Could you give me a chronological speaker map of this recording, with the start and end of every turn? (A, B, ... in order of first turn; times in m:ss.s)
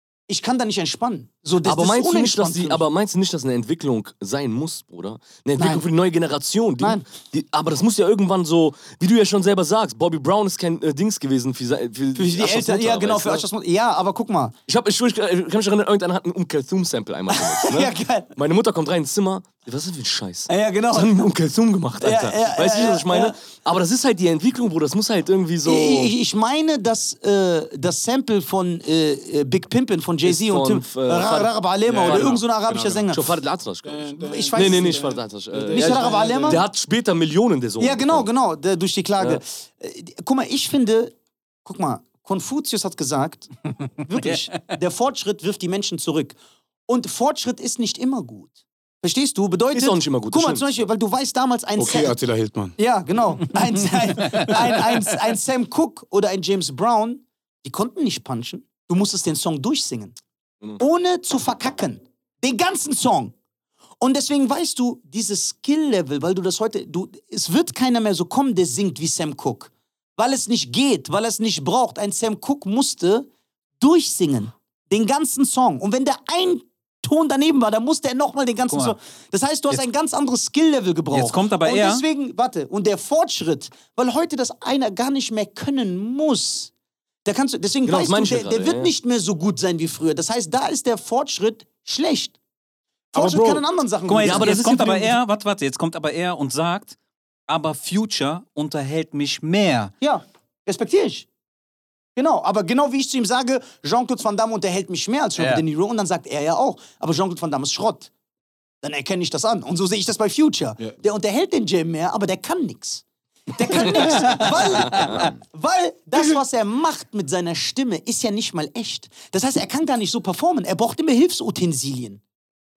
0:00.3-0:02.8 A
0:01.6-0:13.5 B
0:05.6-0:05.8 A
0:06.8-0:07.0 A
0:12.2-0:14.6 A
0:14.7-0:26.1 B
0:17.3-0:18.3 A
0:20.5-0:21.3 A
0:22.0-0:23.4 A
0:25.6-0:33.2 A
0:30.2-0:32.4 B
0:31.9-0:33.2 C
0:33.1-0:38.3 B
0:33.8-0:36.6 C
0:34.2-0:35.2 A
0:35.7-0:36.6 A
0:37.8-0:41.1 A
0:41.6-0:46.4 A
0:46.9-0:52.1 A
0:49.7-0:50.7 B
0:51.8-0:52.8 C
0:52.8-1:00.2 A
0:54.4-0:55.0 D
1:00.8-1:03.3 A
1:04.0-1:13.3 A
1:13.8-1:26.7 A
1:18.7-1:19.0 D
1:21.1-1:22.0 D
1:27.2-1:32.4 A
1:27.8-1:28.9 B
1:33.1-1:35.1 A
1:33.2-1:33.6 C
1:33.2-1:37.0 D
1:34.2-1:35.1 B
1:37.5-1:39.9 D
1:40.0-1:41.3 A
1:42.2-1:48.1 A
1:45.4-1:45.6 D
1:48.8-2:02.2 A
1:54.0-1:55.2 D
1:55.0-1:55.2 B